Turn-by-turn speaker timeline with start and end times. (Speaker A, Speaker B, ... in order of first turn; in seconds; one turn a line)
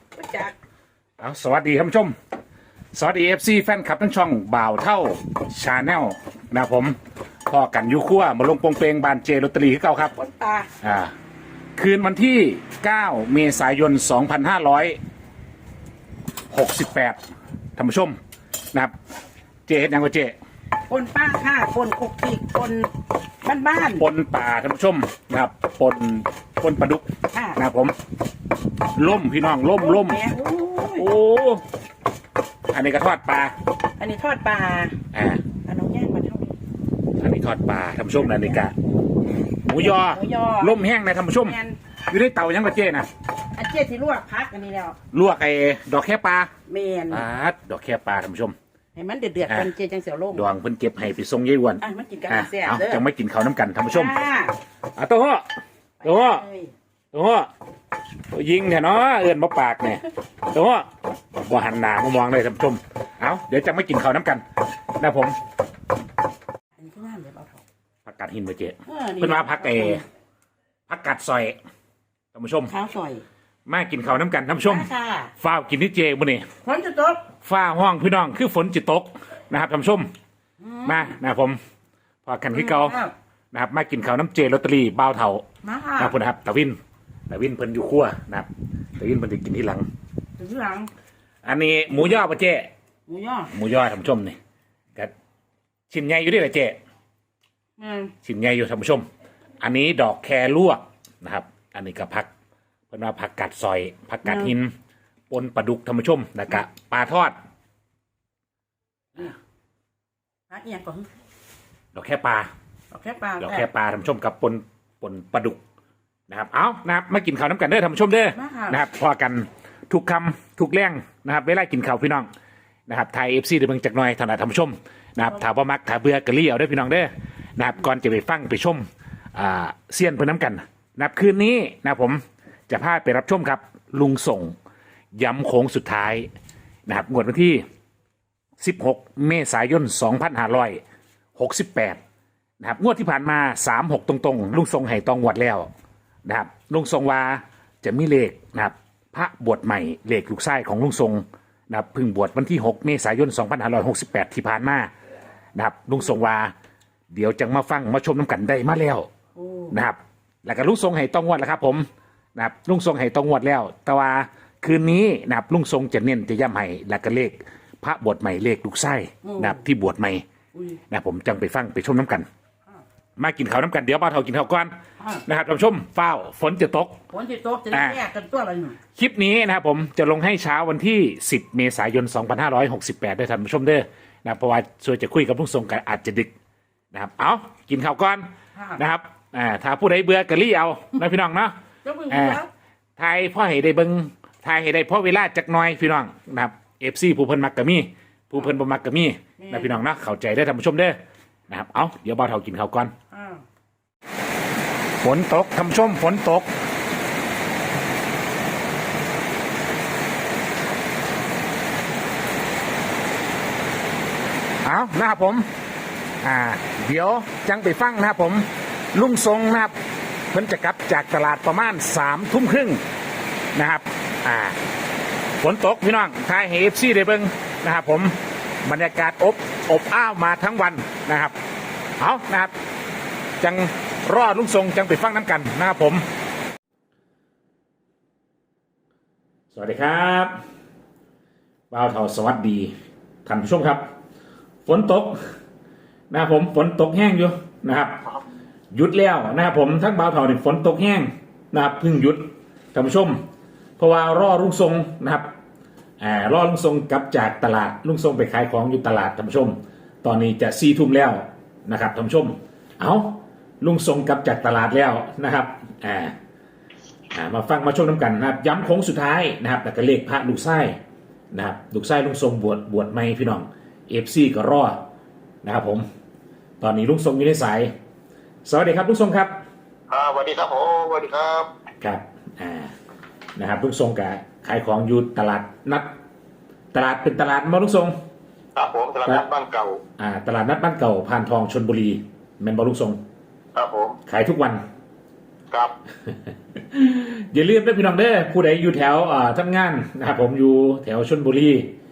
Speaker A: 0.2-0.5
Speaker B: 1.2-2.1
Speaker B: 2.9-10.2
Speaker A: 10.3-10.6
Speaker B: 10.8-11.1
Speaker B: 11.8-15.0
Speaker B: 16.5-17.2
Speaker B: 17.8-18.2
Speaker B: 19.7-20.4
Speaker A: 20.9-22.9
Speaker A: 23.4-23.8
Speaker B: 23.9-27.9
Speaker B: 28.9-30.2
Speaker B: 30.9-31.6
Speaker B: 32.7-33.5
Speaker A: 34.0-34.9
Speaker B: 35.1-35.4
Speaker A: 35.7-36.4
Speaker B: 37.2-38.8
Speaker B: 39.6-43.1
Speaker C: 40.1-40.6
Speaker A: 43.6-44.9
Speaker B: 45.1-46.5
Speaker A: 46.7-47.0
Speaker C: 46.9-47.2
Speaker B: 47.1-48.5
Speaker A: 49.0-50.2
Speaker B: 49.5-49.8
Speaker B: 50.3-54.2
Speaker A: 51.9-52.5
Speaker C: 53.9-54.5
Speaker B: 55.0-55.5
Speaker B: 56.0-56.5
Speaker B: 57.1-57.5
Speaker B: 58.3-64.4
Speaker B: 65.0-65.4
Speaker C: 66.9-67.4
Speaker A: 66.9-67.4
Speaker B: 68.0-70.0
Speaker A: 68.9-69.2
Speaker C: 69.2-69.9
Speaker B: 70.9-71.6
Speaker B: 72.3-72.7
Speaker A: 72.7-73.2
Speaker B: 73.7-76.4
Speaker C: 74.7-75.2
Speaker A: 76.7-77.0
Speaker C: 76.9-77.2
Speaker B: 77.4-80.1
Speaker B: 80.8-81.6
Speaker B: 82.2-83.0
Speaker B: 83.5-85.4
Speaker B: 86.0-86.8
Speaker B: 87.3-89.8
Speaker A: 90.4-90.9
Speaker B: 91.4-92.7
Speaker B: 93.5-94.4
Speaker B: 95.9-96.8
Speaker B: 98.2-99.1
Speaker B: 99.6-102.3
Speaker B: 102.9-104.7
Speaker B: 105.3-107.3
Speaker A: 110.5-111.0
Speaker B: 111.9-112.5
Speaker C: 113.3-113.6
Speaker B: 113.4-115.6
Speaker B: 116.3-122.3
Speaker B: 122.9-134.5
Speaker B: 135.1-136.3
Speaker B: 136.9-137.6
Speaker B: 138.6-140.8
Speaker B: 141.4-142.0
Speaker B: 142.6-145.7
Speaker B: 146.2-154.9
Speaker B: 155.6-156.5
Speaker B: 157.1-159.1
Speaker B: 159.7-170.2
Speaker B: 170.9-172.3
Speaker B: 173.2-177.0
Speaker A: 177.1-178.7
Speaker B: 177.7-178.1
Speaker B: 178.9-186.3
Speaker B: 186.9-191.5
Speaker C: 192.0-192.3
Speaker B: 192.1-192.4
Speaker B: 193.0-200.9
Speaker B: 201.5-202.9
Speaker C: 203.1-203.4
Speaker B: 205.0-206.5
Speaker B: 214.6-215.4
Speaker B: 216.2-219.7
Speaker B: 220.3-222.8
Speaker B: 223.5-224.6
Speaker B: 225.4-231.3
Speaker B: 232.0-232.5
Speaker B: 233.4-236.0
Speaker B: 239.5-240.3
Speaker B: 241.7-242.7
Speaker B: 243.2-243.8
Speaker B: 244.7-245.2
Speaker B: 246.1-248.0
Speaker B: 248.7-253.2
Speaker B: 253.8-255.3
Speaker B: 256.0-266.1
Speaker B: 267.1-270.8
Speaker B: 271.3-274.8
Speaker B: 275.4-275.8
Speaker B: 276.6-277.7
Speaker B: 278.4-279.3
Speaker C: 279.9-281.5
Speaker B: 281.8-282.7
Speaker B: 283.4-285.9
Speaker B: 286.7-287.9
Speaker C: 288.5-289.8
Speaker B: 290.0-293.0
Speaker C: 293.5-294.0
Speaker B: 294.1-294.6
Speaker C: 295.5-295.8
Speaker B: 296.6-301.7